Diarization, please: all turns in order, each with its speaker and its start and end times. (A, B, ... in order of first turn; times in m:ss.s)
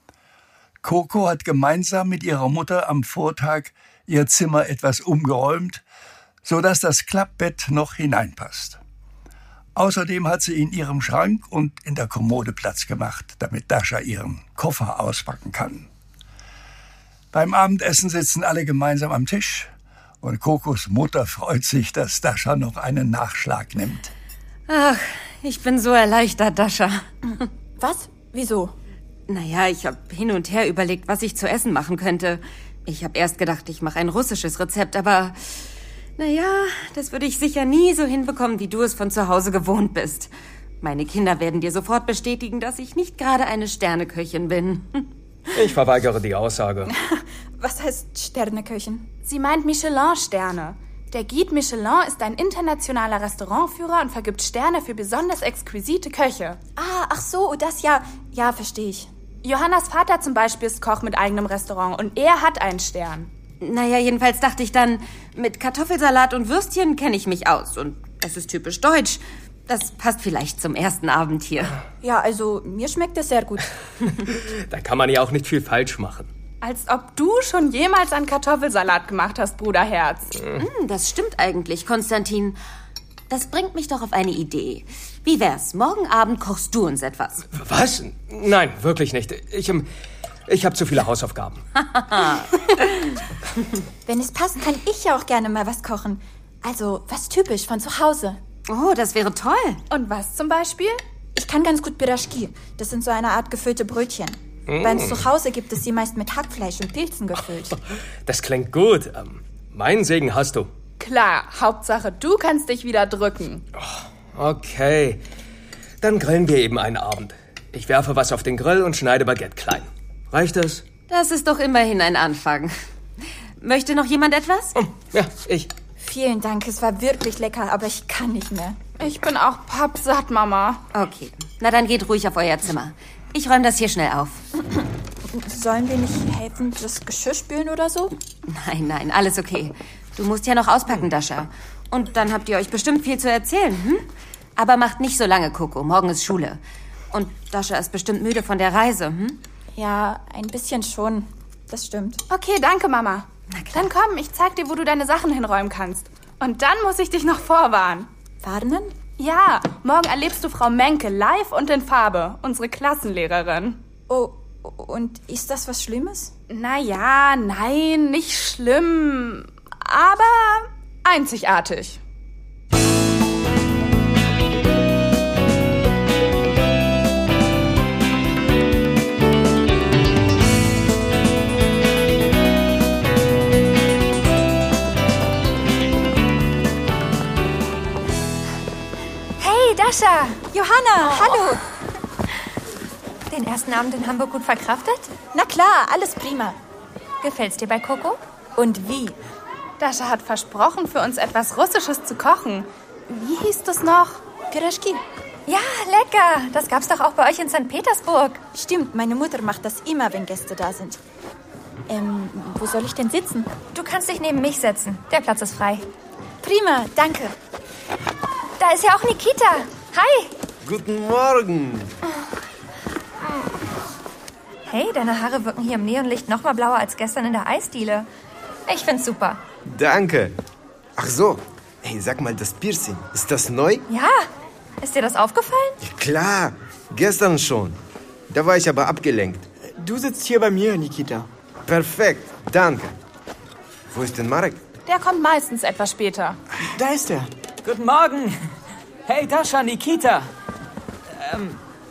0:00.8-0:05.8 A
0:06.4-0:08.8 A
0:09.7-0:15.9 A
0:17.3-0:19.7 A
0:20.2-0:24.1 A
0:24.7-0:27.0 B
0:27.8-0:28.7 C
0:29.3-0:35.5 B
0:36.2-0:45.1 B
0:45.5-0:46.9 D
0:46.9-0:49.1 C
0:49.2-0:56.6 E
0:56.8-0:59.1 C
0:59.4-1:03.3 E
1:03.6-1:11.8 B
1:12.0-1:13.7 C
1:14.7-1:16.3 D
1:16.6-1:20.3 E
1:20.6-1:22.6 B
1:23.3-1:27.4 B
1:27.5-1:29.9 D
1:30.5-1:31.6 D
1:31.9-1:32.5 B
1:34.0-1:38.4 C
1:38.7-1:39.8 B
1:39.9-1:41.0 E
1:41.3-1:47.8 C
1:44.7-1:45.3 D
1:48.2-1:50.7 D
1:51.0-1:53.6 E
1:53.8-1:55.2 D
1:56.0-2:00.8 D
2:01.1-2:02.7 B
2:03.6-2:04.7 B
2:05.0-2:05.7 D
2:06.0-2:08.8 C
2:09.0-2:10.8 E
2:10.9-2:14.4 B
2:15.3-2:18.1 C
2:18.4-2:26.6 B
2:27.1-2:29.4 B
2:29.7-2:32.2 C
2:32.3-2:38.1 E
2:33.5-2:33.8 B
2:38.4-2:38.9 C
2:39.2-2:43.8 E
2:44.1-2:46.3 C
2:46.5-2:52.0 E
3:09.4-3:10.4 F
3:10.5-3:11.6 C
3:13.3-3:15.1 F
3:15.3-3:16.6 C
3:17.2-3:18.2 F
3:18.6-3:19.2 C
3:19.8-3:24.2 E
3:24.5-3:25.0 C
3:25.5-3:28.4 F
3:28.5-3:31.0 C
3:31.9-3:33.5 C
3:33.7-3:35.8 F
3:36.4-3:37.3 C
3:38.6-3:40.3 F
3:40.6-3:41.9 G
3:43.2-3:43.5 F
3:44.6-3:48.1 F
3:48.7-3:49.4 F
3:49.6-3:50.4 G
3:51.0-3:53.8 G
3:53.9-3:54.3 F
3:54.8-3:55.8 F
3:55.8-3:57.8 G
3:58.3-3:59.5 G
3:59.8-4:01.3 H
4:01.6-4:03.0 G
4:03.9-4:04.6 G
4:04.8-4:06.4 E
4:06.6-4:07.3 H
4:07.6-4:08.4 I
4:09.0-4:10.3 I
4:11.1-4:11.6 I